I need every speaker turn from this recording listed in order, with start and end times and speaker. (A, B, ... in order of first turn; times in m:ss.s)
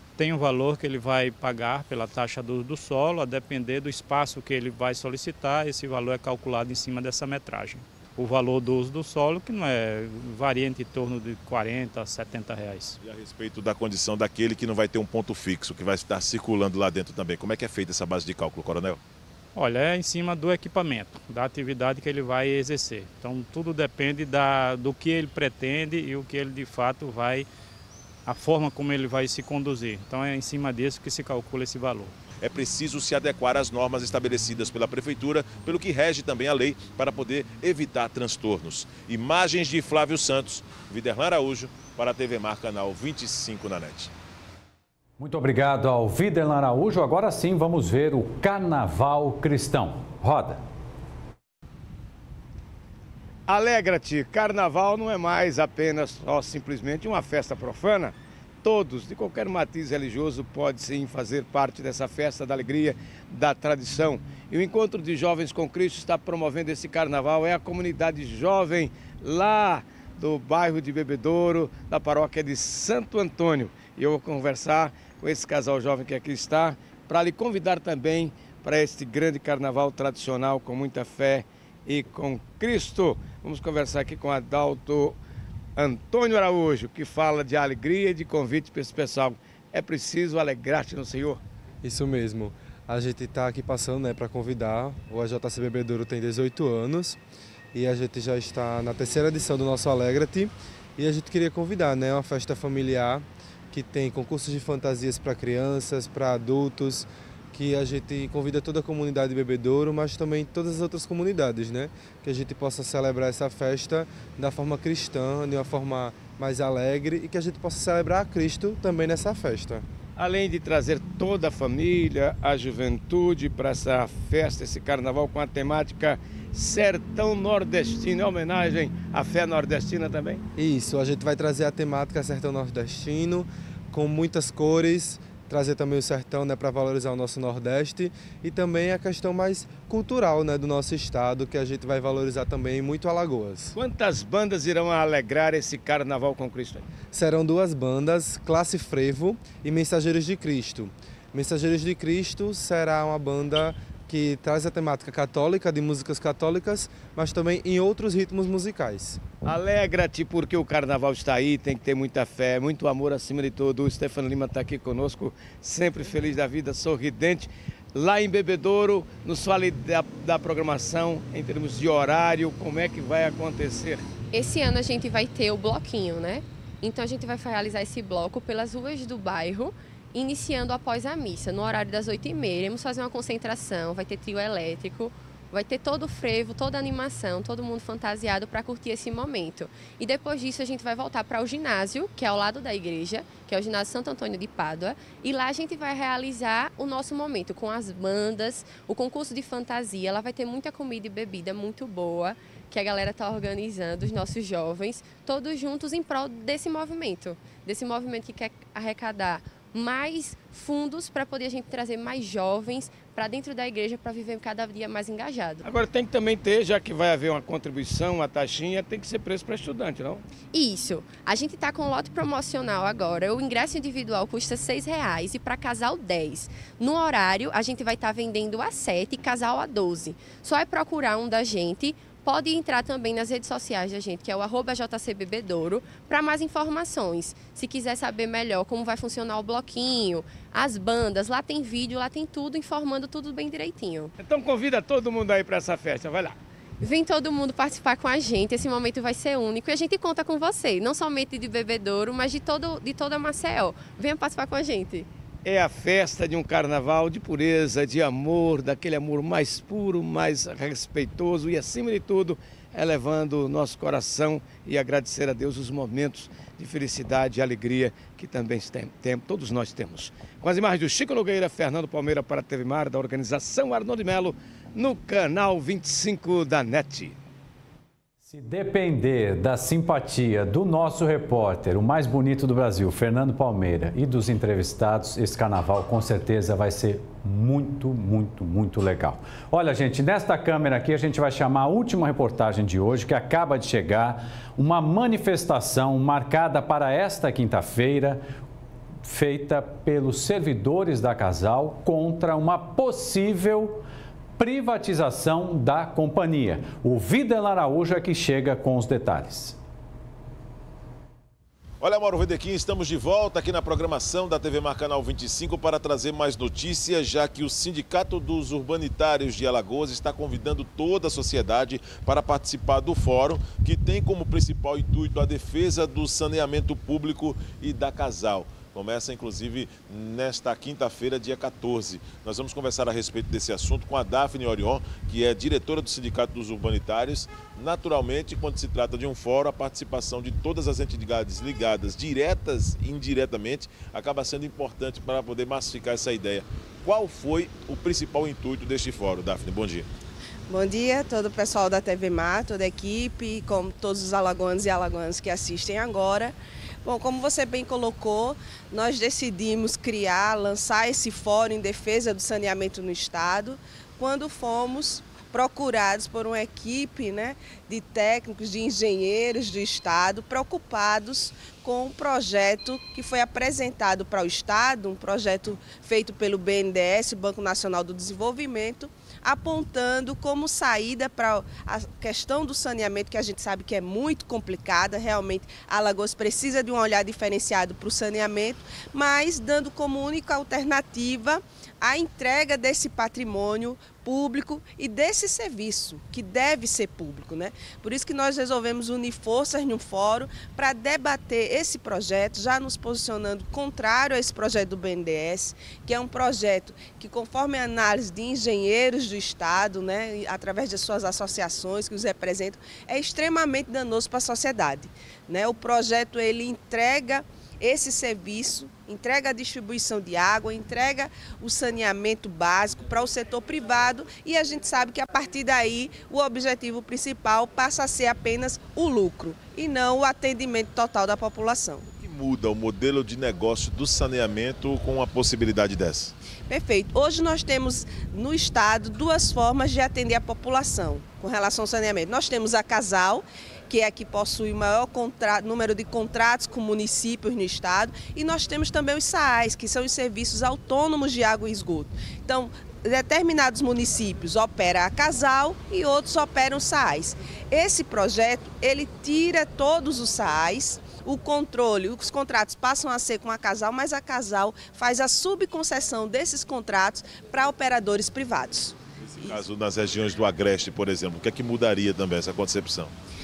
0:00.2-0:13.0 A
0:13.0-0:19.0 B
0:19.6-0:27.5 A
0:28.2-0:32.1 A
0:32.4-0:44.1 B
0:45.2-0:50.6 C
0:53.5-1:25.2 D
1:25.8-1:31.4 D
1:31.8-1:37.2 E
1:37.7-1:59.8 E
2:00.2-2:10.4 D
2:10.6-2:23.8 E
2:23.8-2:26.8 D
2:27.1-2:39.2 E
2:39.5-2:54.0 D
2:54.3-3:35.6 F
3:35.7-3:40.2 D
3:40.5-4:04.1 F
4:04.2-4:06.3 D
4:06.8-4:15.1 F
4:15.4-4:37.1 D
4:38.2-4:58.2 C
4:59.0-5:03.8 C
5:04.4-5:09.6 C
5:11.8-5:49.9 B
5:50.5-7:11.9 G
7:12.0-7:16.2 B
7:16.5-7:49.4 G
7:49.1-7:52.9 B